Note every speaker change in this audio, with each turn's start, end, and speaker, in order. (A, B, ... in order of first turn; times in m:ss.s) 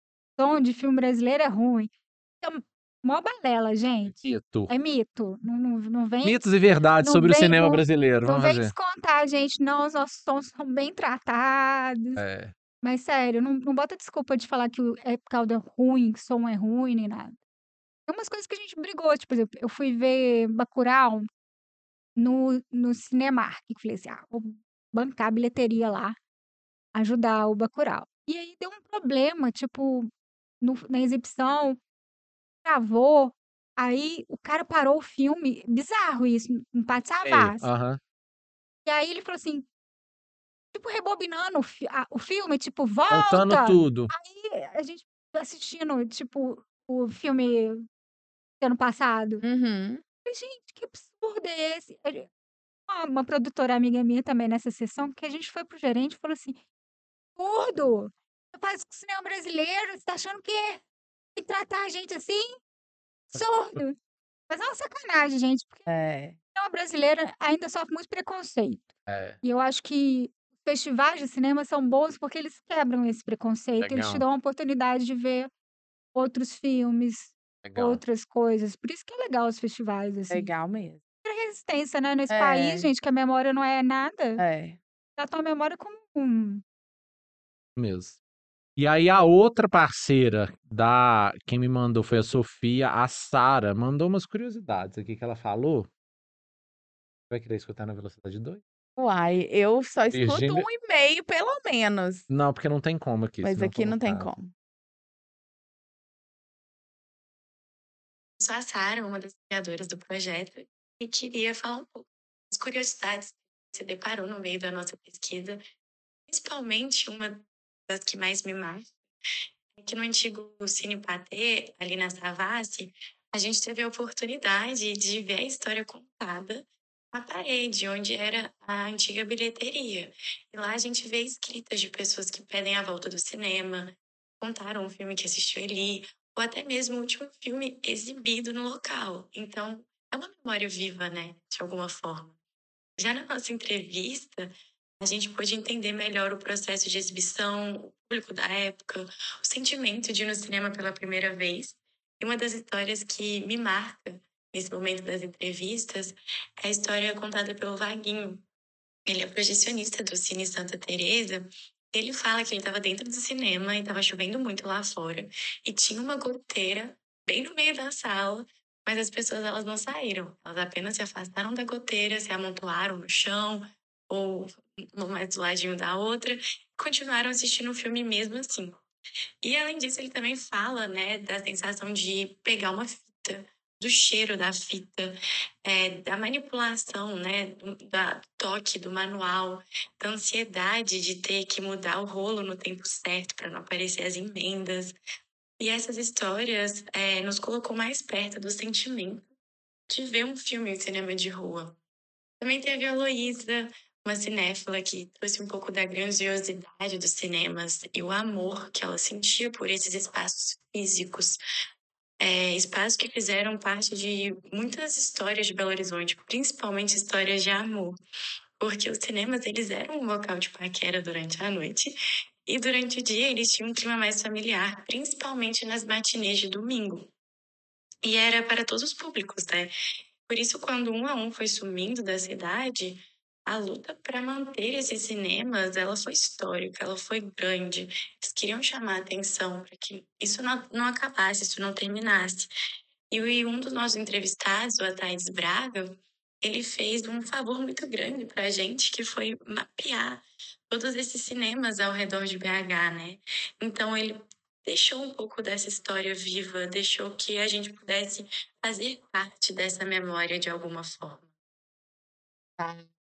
0:00.4-0:06.5 A
0:04.1-0:04.7 B
0:06.2-0:08.7 B
0:07.0-0:12.2 A
0:12.2-0:12.5 B
0:12.8-0:17.4 A
0:18.1-0:21.3 A
0:22.2-0:26.2 A
0:26.9-0:30.1 A
0:30.6-0:31.8 A
0:32.6-0:37.7 A
0:37.2-0:38.0 B
0:38.9-0:39.7 A
0:40.7-0:47.9 A
0:43.1-0:44.1 B
0:48.6-0:49.4 A
0:49.4-0:50.0 C
0:50.2-0:52.3 A
0:52.9-0:56.6 A
0:57.4-1:00.8 A
1:01.4-1:02.6 A
1:03.3-1:04.0 A
1:04.5-1:05.9 A
1:05.9-1:06.4 C
1:06.6-1:15.5 A
1:09.1-1:09.4 B
1:13.8-1:14.2 B
1:16.2-1:20.5 A
1:17.6-1:18.0 B
1:20.3-1:21.0 C
1:21.2-1:24.4 A
1:22.3-1:22.9 C
1:24.4-1:24.8 C
1:25.2-1:26.6 A
1:27.8-1:28.2 B
1:28.8-1:35.9 B
1:37.3-1:38.6 B
1:39.0-1:42.3 C
1:40.1-1:40.7 B
1:42.3-1:44.3 B
1:43.4-1:44.5 C
1:48.4-1:55.6 D
1:56.3-1:59.0 D
1:59.8-2:22.4 D
2:23.0-2:38.4 D
2:39.1-2:58.8 D
2:59.4-3:15.0 D
3:15.6-3:19.2 D
3:19.9-3:21.8 D
3:22.4-3:31.4 D
3:32.2-3:38.0 D
3:38.6-3:47.1 D
3:48.0-3:49.7 D
3:50.3-4:02.5 D
4:03.1-4:21.2 D
4:22.6-4:22.9 C